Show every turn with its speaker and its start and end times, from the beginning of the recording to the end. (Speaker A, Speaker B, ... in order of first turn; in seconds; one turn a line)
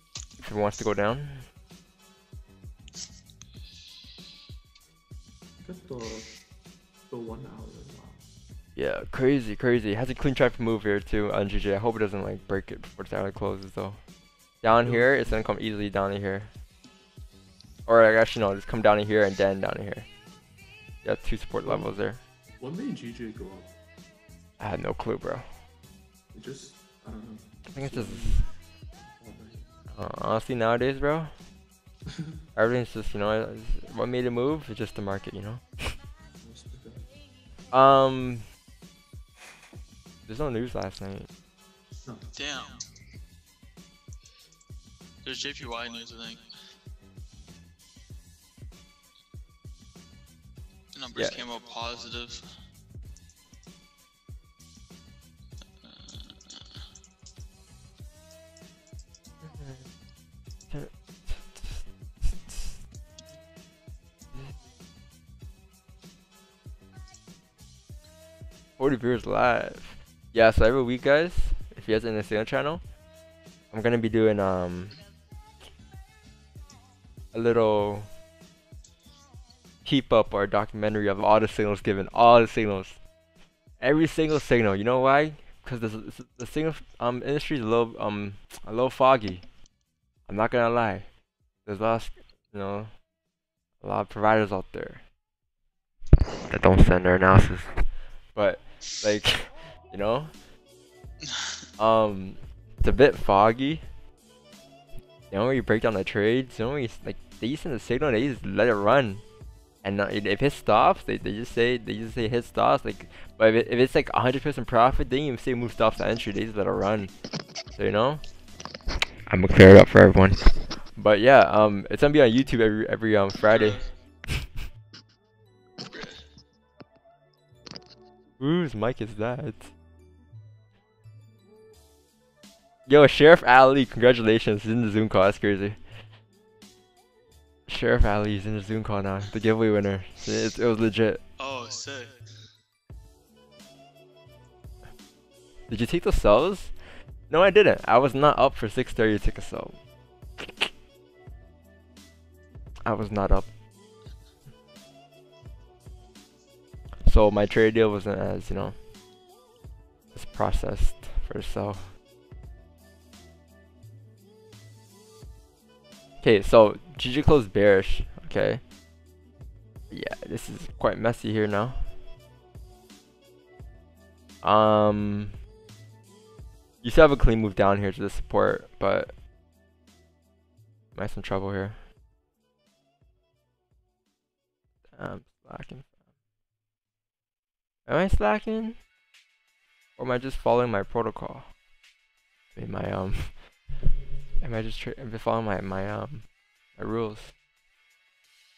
Speaker A: 0.4-1.4
Speaker B: 5.6-6.3
Speaker B: 7.1-8.3
Speaker A: 8.8-14.0
Speaker A: 14.6-16.5
Speaker B: 14.8-15.4
Speaker A: 17.9-20.1
Speaker A: 21.0-22.2
Speaker B: 21.6-21.9
Speaker B: 22.6-23.7
Speaker A: 24.6-25.5
Speaker B: 26.3-29.7
Speaker A: 27.7-28.4
Speaker A: 29.9-31.3
Speaker A: 32.5-36.0
Speaker B: 36.4-37.0
Speaker A: 37.7-38.5
Speaker A: 40.3-41.3
Speaker B: 42.0-42.3
Speaker C: 42.3-42.8
Speaker C: 45.2-46.5
Speaker C: 50.9-52.5
Speaker A: 51.1-51.4
Speaker C: 55.8-56.8
Speaker A: 59.4-59.8
Speaker A: 60.7-62.8
Speaker A: 68.8-72.8
Speaker A: 73.7-75.0
Speaker A: 77.3-78.1
Speaker A: 79.8-83.0
Speaker A: 83.8-89.5
Speaker A: 90.3-91.1
Speaker A: 91.6-92.9
Speaker A: 93.8-95.0
Speaker A: 96.5-97.8
Speaker A: 98.3-100.3
Speaker A: 101.8-103.8
Speaker A: 105.3-109.2
Speaker A: 109.8-117.1
Speaker A: 117.7-118.2
Speaker A: 119.3-124.5
Speaker C: 123.4-123.9
Speaker C: 125.8-126.2
Speaker A: 128.4-129.7
Speaker A: 132.9-135.8
Speaker A: 137.7-141.2
Speaker C: 141.4-142.2
Speaker A: 145.7-146.8
Speaker A: 147.3-149.8
Speaker A: 150.4-150.7
Speaker A: 152.8-153.5
Speaker A: 157.1-158.8
Speaker A: 160.1-161.9
Speaker A: 166.2-168.6
Speaker A: 169.9-171.8
Speaker A: 174.4-175.4
Speaker A: 176.8-179.1
Speaker A: 180.9-181.8
Speaker A: 184.9-185.9
Speaker A: 187.9-188.8
Speaker A: 189.9-191.5
Speaker A: 192.5-193.5
Speaker A: 194.4-197.3